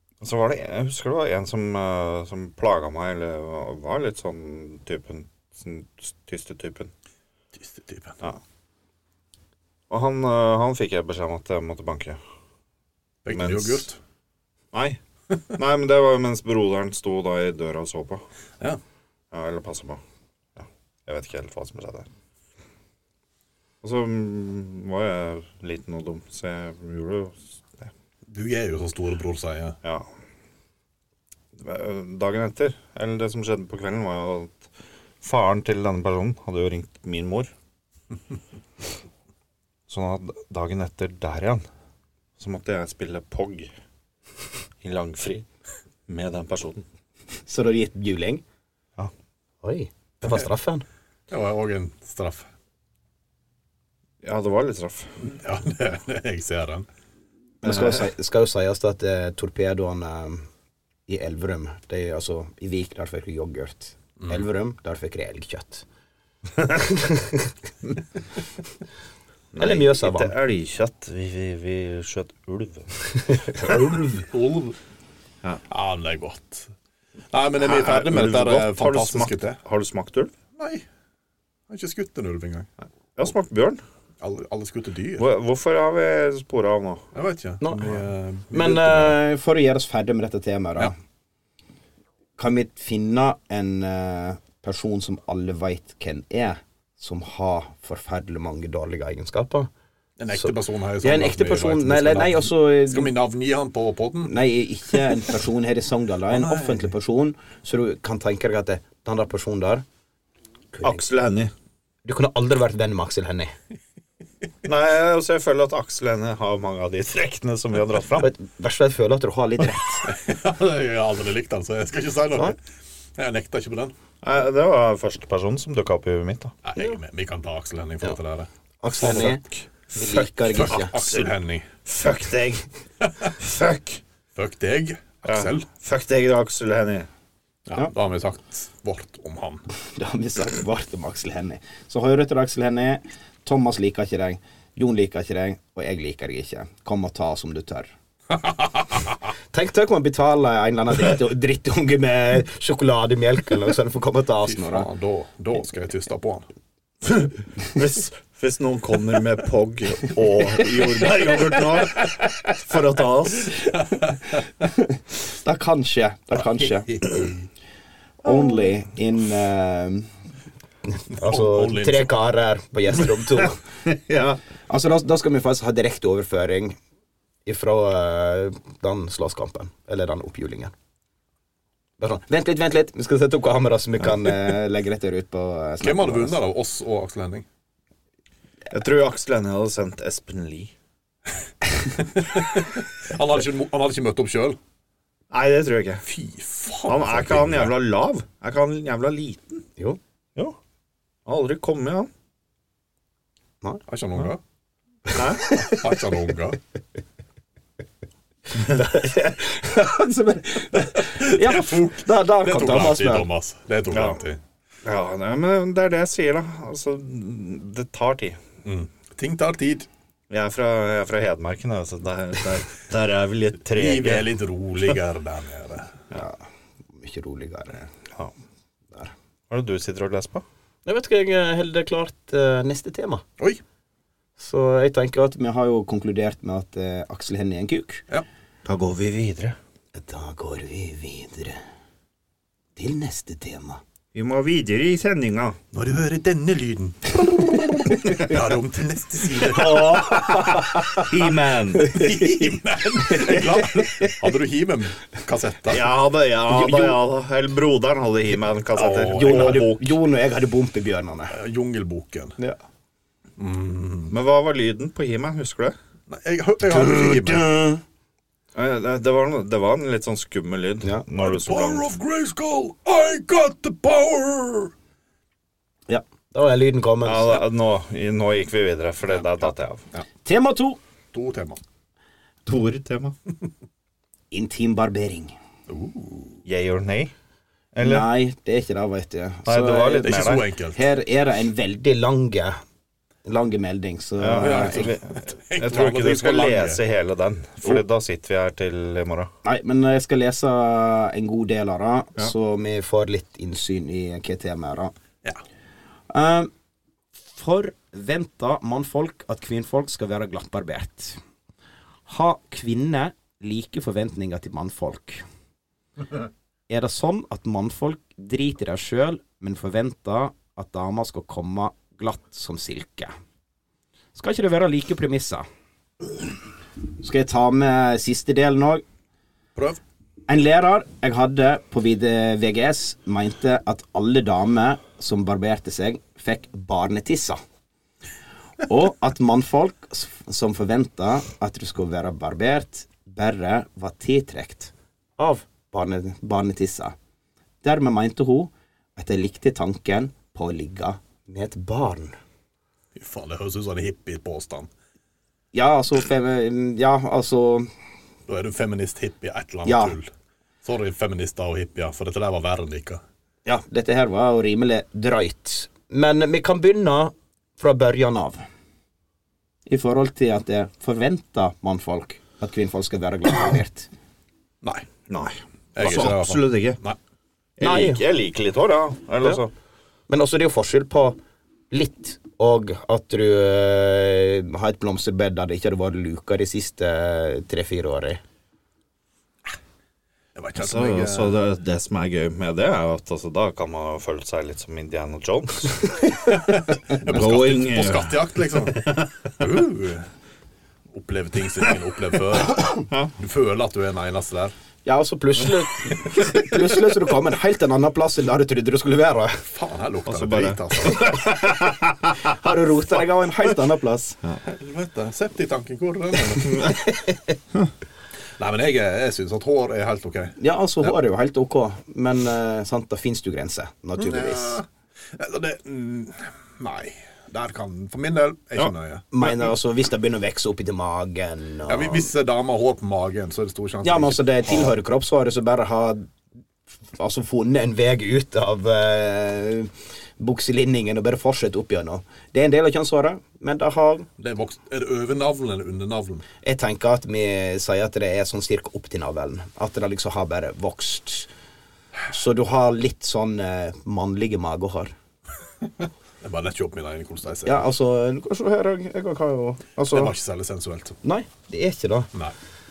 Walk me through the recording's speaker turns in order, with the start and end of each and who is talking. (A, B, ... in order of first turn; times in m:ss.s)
0:00.2-0:06.9 A
0:07.5-0:08.2 B
0:09.9-0:12.2 A
0:13.2-0:14.0 B
0:13.3-0:13.9 A
0:14.7-0:15.0 A
0:15.5-0:18.2 A
0:19.3-0:20.0 A
0:20.6-0:22.1 A
0:23.8-0:27.9 A
0:28.3-0:29.8 B
0:29.8-0:30.1 A
0:31.6-0:34.7 A
0:35.2-0:37.5 A
0:39.9-0:41.6 A
0:42.4-0:43.7 A
0:44.8-0:45.5 A
0:46.1-0:46.8 A
0:47.5-0:48.4 C
0:49.6-0:50.8 C
0:51.3-0:52.5 B
0:54.2-0:55.1 A
0:55.2-0:56.9 B
0:57.6-1:00.5 C
0:57.6-0:58.0 A
1:01.1-1:05.9 C
1:06.7-1:07.5 C
1:09.6-1:13.7 A
1:09.6-1:10.3 C
1:13.6-1:14.8 B
1:15.7-1:16.7 B
1:17.3-1:19.6 B
1:17.6-1:20.3 A
1:20.6-1:20.8 B
1:21.7-1:22.7 B
1:23.2-1:23.8 A
1:24.2-1:25.3 B
1:25.2-1:27.1 A
1:27.1-1:29.2 B
1:27.6-1:27.9 C
1:28.5-1:30.9 C
1:32.4-1:39.7 C
1:40.2-1:44.4 B
1:40.3-1:43.1 C
1:44.3-1:49.8 C
1:44.9-1:45.2 B
1:46.3-1:46.9 B
1:50.7-1:51.0 C
1:50.8-1:51.5 A
1:52.0-1:53.5 C
1:54.6-1:58.3 A
1:58.2-2:00.2 C
2:00.0-2:02.6 B
2:03.2-2:03.9 B
2:04.2-2:06.5 A
2:06.6-2:09.4 B
2:08.8-2:09.4 C
2:09.9-2:11.0 C
2:10.0-2:11.3 A
2:10.5-2:11.7 B
2:11.9-2:12.7 A
2:13.0-2:13.3 B
2:13.4-2:14.0 A
2:14.4-2:15.7 B
2:15.2-2:17.1 A
2:17.7-2:19.7 B
2:19.9-2:27.9 C
2:28.3-2:29.2 B
2:29.5-2:34.9 C
2:34.4-2:36.5 B
2:37.0-2:43.6 A
2:43.8-2:44.4 B
2:44.6-2:46.9 C
2:46.4-2:47.5 B
2:48.2-2:50.1 C
2:50.9-2:53.6 C
2:51.1-2:52.1 B
2:53.8-2:54.4 A
2:54.7-2:56.8 C
2:57.5-3:00.7 C
3:02.0-3:06.4 C
3:05.8-3:07.4 B
3:08.7-3:10.7 A
3:12.0-3:14.6 B
3:15.3-3:16.1 A
3:16.1-3:17.7 B
3:16.9-3:19.6 A
3:21.3-3:22.1 A
3:23.9-3:24.4 B
3:25.2-3:25.6 A
3:25.3-3:25.8 C
3:25.5-3:26.6 B
3:28.6-3:33.3 C
3:31.0-3:34.4 B
3:33.9-3:34.2 A
3:34.8-3:38.4 A
3:38.6-3:39.9 B
3:40.3-3:44.3 A
3:43.7-3:46.0 B
3:46.1-3:46.4 C
3:46.9-3:47.9 C
3:49.5-3:50.4 A
3:50.9-3:53.2 C
3:54.4-3:58.0 C
3:58.6-3:59.6 A
3:59.9-4:01.6 C
4:02.8-4:03.8 C
4:04.1-4:05.6 A
4:05.7-4:10.1 B
4:09.4-4:12.0 A
4:10.4-4:11.0 C
4:11.8-4:12.4 C
4:11.8-4:15.8 B
4:13.0-4:14.1 C
4:15.7-4:20.0 A
4:16.5-4:17.0 C
4:18.7-4:19.7 B
4:19.1-4:21.3 C
4:21.3-4:22.4 B
4:23.4-4:24.1 B
4:24.1-4:25.8 A
4:26.1-4:27.5 B
4:26.7-4:27.8 C
4:28.6-4:31.9 A
4:31.1-4:34.7 B
4:35.9-4:37.4 C
4:37.0-4:39.8 A
4:40.2-4:40.8 C
4:41.1-4:41.6 B
4:42.5-4:43.2 A
4:44.3-4:45.4 C
4:45.7-4:46.4 B
4:46.4-4:47.1 A
4:47.7-4:48.1 A
4:47.8-4:52.6 C
4:49.4-4:50.5 A
4:50.0-4:50.8 B
4:53.2-4:54.9 C
4:54.2-4:59.3 A
4:54.4-4:56.8 B
4:59.4-5:04.9 C
5:06.1-5:06.5 C
5:07.2-5:11.2 C
5:12.1-5:15.2 C
5:16.7-5:23.1 C
5:24.2-5:25.5 C
5:27.0-5:28.8 C
5:30.3-5:37.4 C
5:38.6-5:47.0 C
5:47.6-5:52.2 C
5:53.0-5:54.7 B
5:55.5-5:57.7 C
5:58.3-6:00.1 B
5:59.6-6:00.0 C
6:00.6-6:03.0 B
6:03.4-6:08.5 C
6:09.7-6:13.9 C
6:15.1-6:16.8 A
6:15.8-6:17.0 B
6:17.6-6:19.5 A
6:17.6-6:18.0 C
6:20.1-6:21.2 C
6:21.7-6:28.2 C
6:30.4-6:31.4 B
6:30.6-6:36.1 A
6:36.3-6:40.1 B
6:37.0-6:39.4 A
6:40.9-6:44.5 B
6:44.8-6:49.4 C
6:49.5-6:51.2 B
6:50.1-6:52.4 A
6:52.2-6:54.2 C
6:54.5-6:56.6 B
6:56.5-6:56.8 A
6:56.6-6:57.2 C
6:58.4-7:00.9 B
7:00.4-7:04.6 C
7:04.0-7:09.4 B
7:09.1-7:12.1 C
7:11.7-7:14.7 B
7:13.8-7:16.1 C
7:16.9-7:24.1 C
7:24.2-7:26.2 B
7:26.4-7:31.3 C
7:32.1-7:34.9 C
7:36.2-7:37.6 B
7:37.5-7:40.1 C
7:39.9-7:41.0 B
7:41.0-7:42.1 C